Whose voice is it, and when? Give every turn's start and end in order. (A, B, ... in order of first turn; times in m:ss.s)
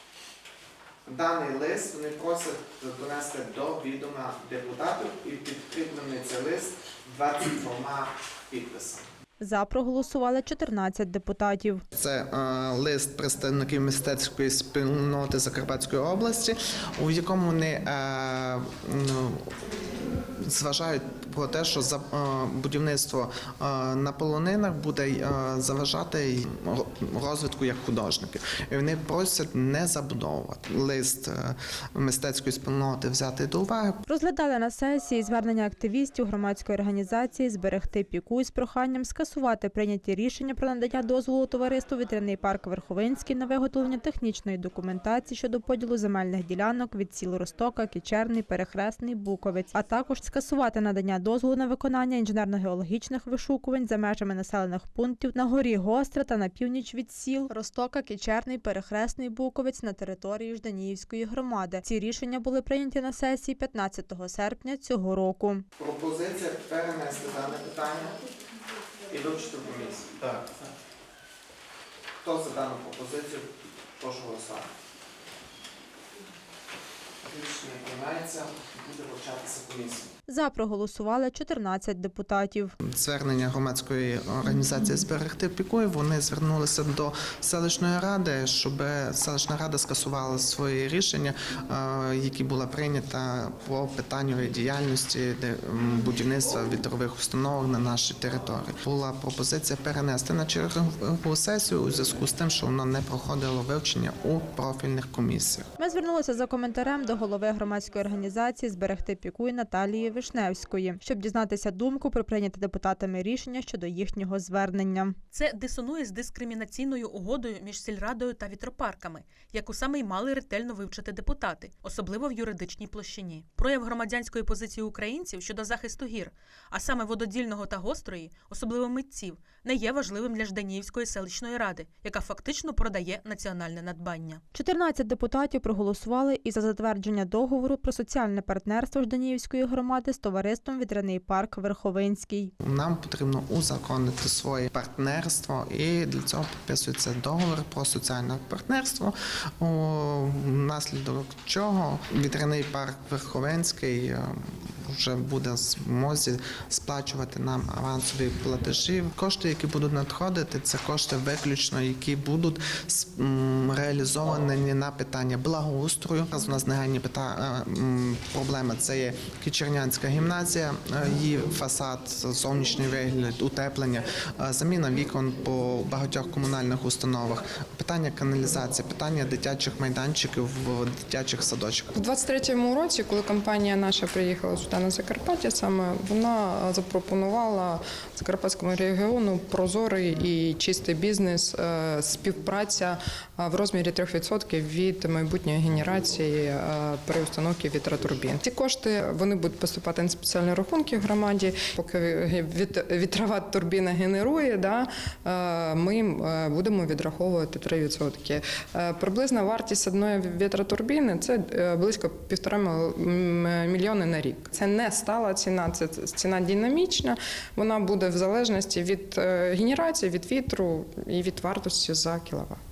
0:01.0-0:09.0 A
0:09.4-0:11.8 B
0:11.9-0:19.5 A
0:20.4-0:34.0 A
0:34.1-1:05.6 B
1:05.8-1:08.2 A
1:09.1-1:10.7 A
1:12.2-1:14.7 A
1:17.2-1:20.1 A
1:20.3-1:22.7 B
1:22.8-1:45.7 A
1:45.8-1:55.2 B
1:55.3-2:14.4 C
2:14.5-2:22.5 B
2:22.6-3:01.9 A
3:01.9-3:42.6 D